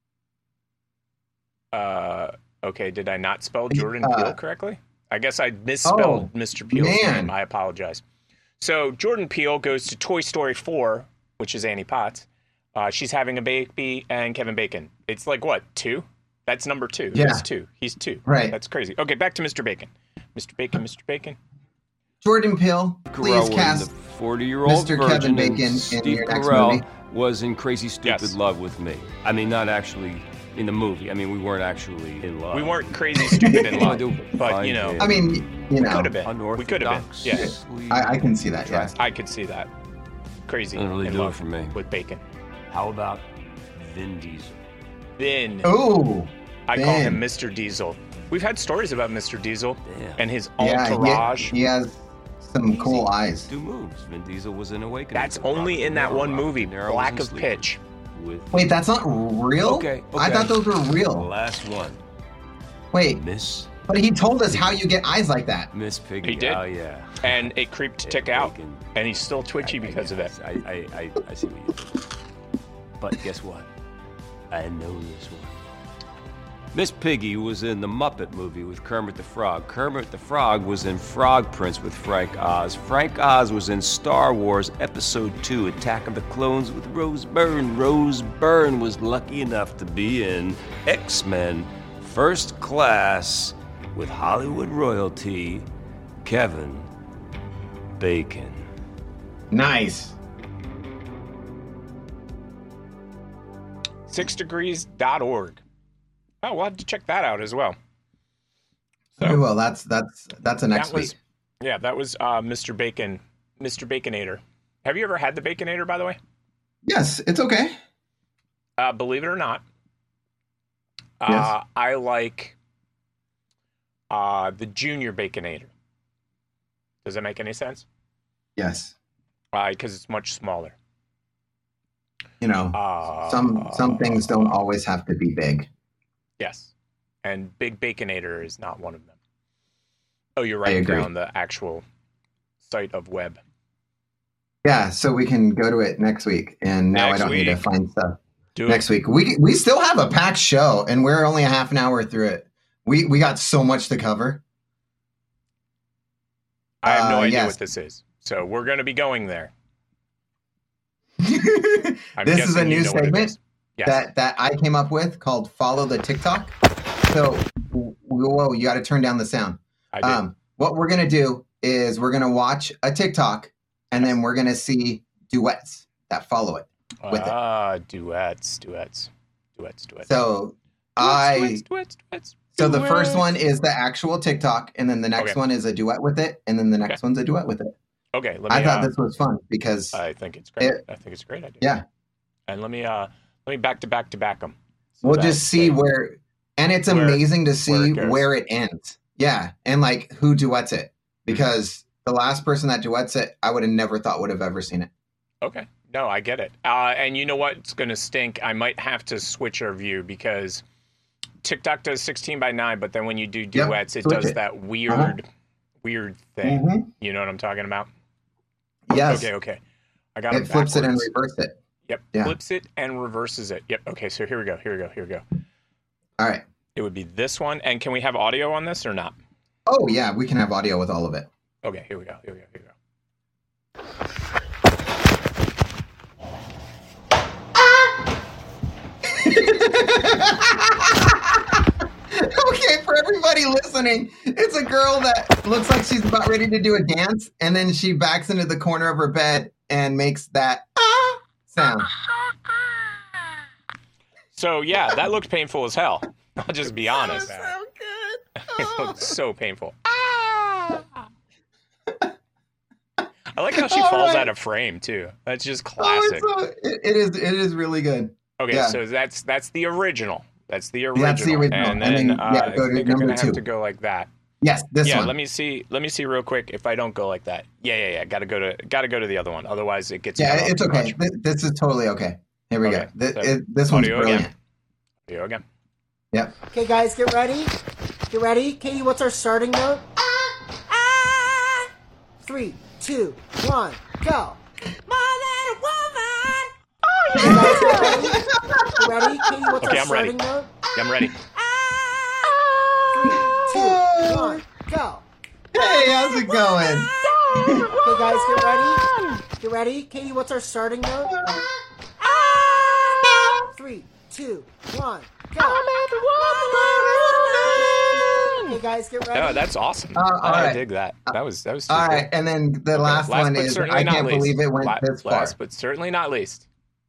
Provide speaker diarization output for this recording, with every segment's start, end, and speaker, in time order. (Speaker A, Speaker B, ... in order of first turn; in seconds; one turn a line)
Speaker A: 1.7-8.0
Speaker B: 3.7-4.3
Speaker B: 5.8-7.3
Speaker A: 8.6-21.4
Speaker B: 17.1-17.4
Speaker B: 18.2-18.6
Speaker B: 22.2-23.9
Speaker C: 23.1-39.0
Speaker B: 24.6-26.9
Speaker A: 28.0-28.4
Speaker A: 32.5-35.0
Speaker B: 33.3-33.9
Speaker B: 35.0-36.1
Speaker A: 35.8-37.5
Speaker B: 37.3-38.9
Speaker A: 38.9-39.7
Speaker A: 40.5-42.2
Speaker C: 40.7-41.8
Speaker C: 42.7-44.6
Speaker A: 45.2-45.7
Speaker B: 45.6-47.2
Speaker A: 46.7-51.5
Speaker C: 49.8-50.2
Speaker B: 50.6-53.5
Speaker C: 51.0-51.5
Speaker C: 52.7-58.6
Speaker A: 55.1-57.8
Speaker B: 58.5-61.3
Speaker C: 59.6-62.0
Speaker B: 62.9-63.2
Speaker C: 63.1-63.8
Speaker B: 63.9-65.7
Speaker C: 64.5-64.8
Speaker C: 65.7-67.5
Speaker A: 66.2-66.6
Speaker A: 67.2-70.3
Speaker C: 68.0-68.9
Speaker C: 69.6-72.0
Speaker C: 73.0-73.7
Speaker C: 74.5-75.6
Speaker C: 76.7-95.7
Speaker C: 96.2-96.9
Speaker C: 98.0-98.7
Speaker B: 99.5-100.1
Speaker A: 104.1-105.6
Speaker A: 106.4-107.8
Speaker B: 109.2-111.2
Speaker A: 110.7-116.2
Speaker B: 116.8-117.7
Speaker A: 118.8-119.6
Speaker A: 121.2-122.5
Speaker B: 121.3-121.5
Speaker A: 124.1-125.7
Speaker A: 127.0-127.8
Speaker B: 128.6-128.9
Speaker A: 129.5-130.7
Speaker B: 132.4-135.7
Speaker A: 132.7-134.6
Speaker A: 136.4-136.7
Speaker A: 137.2-139.2
Speaker A: 140.4-141.8
Speaker B: 140.7-141.1
Speaker A: 142.6-143.4
Speaker B: 144.6-154.4
Speaker A: 146.9-147.7
Speaker A: 148.6-148.9
Speaker A: 156.8-159.5
Speaker B: 156.8-157.6
Speaker B: 161.2-166.6
Speaker A: 162.2-164.1
Speaker B: 167.1-177.3
Speaker A: 169.9-170.2
Speaker A: 177.0-180.1
Speaker B: 180.0-181.6
Speaker A: 181.0-183.4
Speaker B: 182.6-187.7
Speaker A: 188.1-188.9
Speaker B: 188.5-190.0
Speaker A: 189.9-191.7
Speaker A: 192.5-195.8
Speaker B: 195.0-204.9
Speaker A: 196.9-198.3
Speaker A: 205.4-210.6
Speaker A: 211.4-215.3
Speaker B: 213.5-215.1
Speaker A: 215.8-217.9
Speaker B: 216.4-216.9
Speaker B: 218.9-219.3
Speaker A: 219.0-219.6
Speaker A: 220.1-221.1
Speaker B: 220.3-221.6
Speaker A: 221.9-225.2
Speaker B: 226.2-226.4
Speaker A: 226.7-229.1
Speaker B: 229.7-231.3
Speaker A: 231.6-232.7
Speaker B: 239.0-251.9
Speaker A: 254.3-257.5
Speaker A: 258.4-259.8
Speaker A: 263.3-266.3
Speaker B: 263.5-264.3
Speaker B: 265.8-268.8
Speaker A: 268.4-274.1
Speaker B: 270.9-273.4
Speaker B: 274.4-275.1
Speaker A: 274.8-281.0
Speaker B: 280.2-284.3
Speaker A: 282.6-284.3
Speaker A: 285.1-285.4
Speaker D: 286.5-287.5
Speaker D: 288.1-289.9
Speaker D: 292.2-294.4
Speaker D: 294.9-296.4
Speaker A: 297.0-297.5
Speaker D: 297.1-298.2
Speaker B: 297.2-298.8
Speaker D: 298.7-300.5
Speaker A: 299.6-300.1
Speaker A: 300.7-301.1
Speaker D: 302.9-305.0
Speaker B: 303.4-304.4
Speaker B: 305.5-307.7
Speaker A: 307.2-308.1
Speaker D: 307.8-308.8
Speaker A: 308.8-309.2
Speaker D: 309.4-311.2
Speaker B: 311.1-311.4
Speaker D: 313.5-315.6
Speaker A: 315.4-318.6
Speaker D: 317.1-317.5
Speaker D: 318.5-319.4
Speaker A: 319.1-322.1
Speaker B: 319.9-321.1
Speaker B: 321.7-325.3
Speaker A: 322.7-326.4